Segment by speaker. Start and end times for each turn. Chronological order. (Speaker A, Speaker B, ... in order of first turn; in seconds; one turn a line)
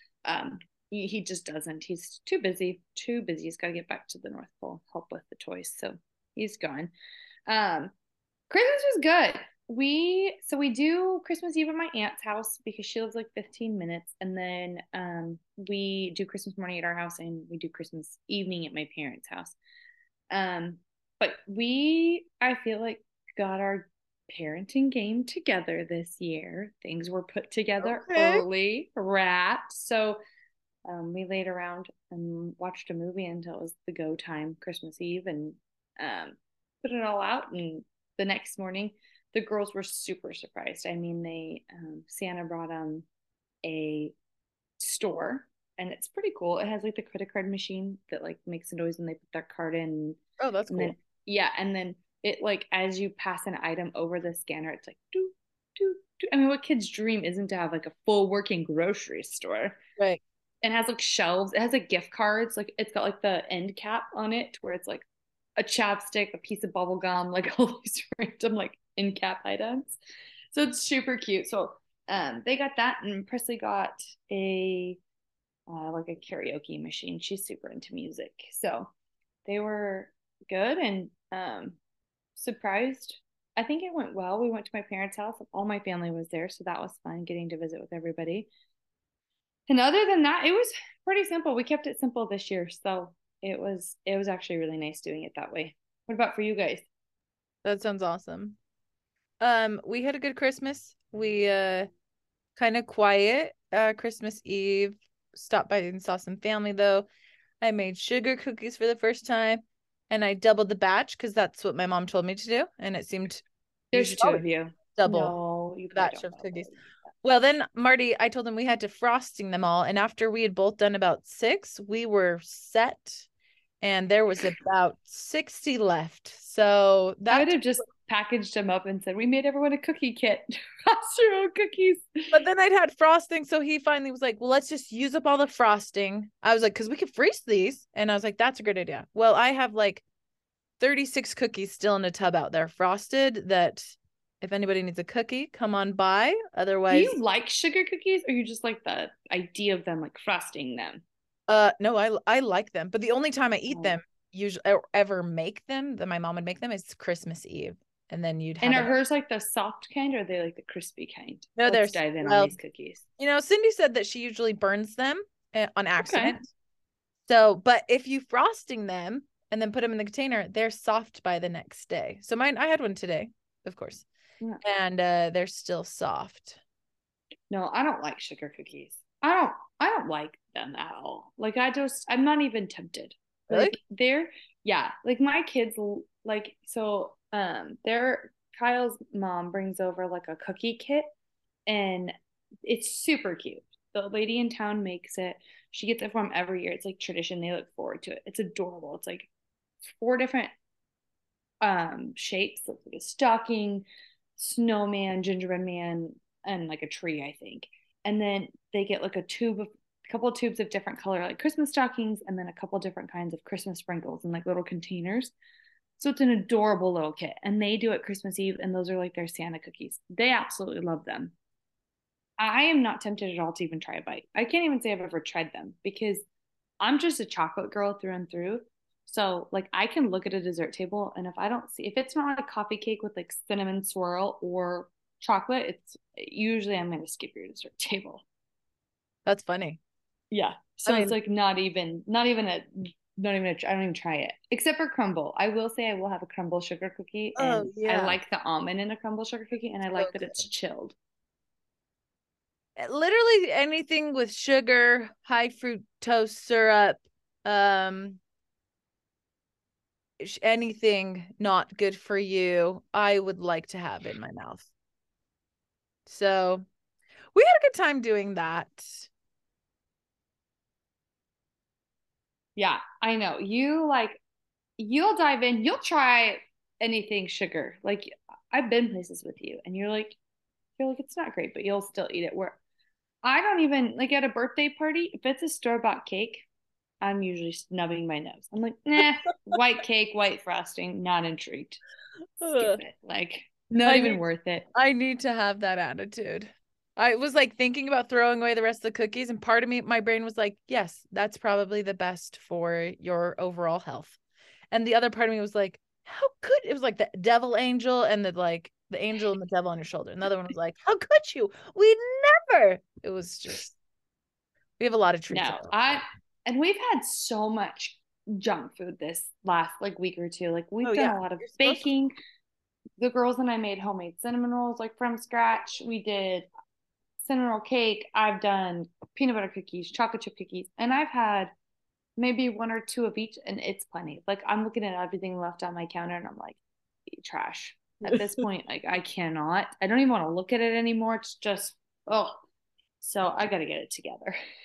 Speaker A: 0.2-6.9
Speaker A: 7.5-7.9
Speaker A: 8.5-19.6
Speaker A: 20.3-30.2
Speaker B: 27.8-28.4
Speaker A: 30.9-43.0
Speaker A: 43.6-44.1
Speaker A: 44.8-50.2
Speaker B: 50.4-51.0
Speaker A: 50.7-59.8
Speaker A: 60.6-65.0
Speaker A: 65.6-70.0
Speaker A: 70.5-75.0
Speaker A: 75.7-78.9
Speaker A: 79.5-81.8
Speaker A: 82.4-88.5
Speaker A: 89.7-96.9
Speaker B: 97.6-98.6
Speaker B: 99.4-101.9
Speaker B: 102.5-107.1
Speaker B: 107.6-115.3
Speaker A: 113.9-116.8
Speaker B: 115.9-116.7
Speaker B: 117.2-123.3
Speaker B: 123.8-127.6
Speaker A: 127.3-132.4
Speaker B: 132.3-140.0
Speaker B: 140.8-147.2
Speaker A: 146.9-151.0
Speaker B: 151.5-158.9
Speaker A: 153.7-154.0
Speaker A: 158.6-163.1
Speaker B: 161.6-162.6
Speaker B: 163.2-166.5
Speaker A: 166.0-166.4
Speaker B: 167.2-174.1
Speaker B: 174.6-176.6
Speaker A: 177.5-191.1
Speaker B: 183.5-183.8
Speaker A: 191.7-192.1
Speaker A: 192.7-199.3
Speaker A: 199.8-200.5
Speaker A: 201.6-203.8
Speaker A: 204.4-215.3
Speaker A: 216.0-221.3
Speaker A: 222.4-226.2
Speaker A: 226.8-238.2
Speaker B: 239.2-239.8
Speaker A: 240.3-251.0
Speaker B: 240.8-241.2
Speaker B: 247.3-248.2
Speaker B: 249.9-250.4
Speaker B: 252.8-258.2
Speaker B: 260.2-264.7
Speaker B: 266.1-266.6
Speaker B: 267.3-269.1
Speaker A: 272.6-274.2
Speaker A: 274.8-280.2
Speaker A: 280.8-282.6
Speaker A: 283.2-286.5
Speaker A: 287.0-291.8
Speaker A: 292.4-294.7
Speaker B: 292.4-292.8
Speaker B: 293.8-294.2
Speaker B: 294.7-304.2
Speaker B: 304.7-313.8
Speaker B: 314.8-316.0
Speaker A: 315.3-322.1
Speaker B: 320.8-321.9
Speaker A: 323.0-326.5
Speaker A: 327.2-331.5
Speaker A: 332.2-342.4
Speaker A: 343.0-344.3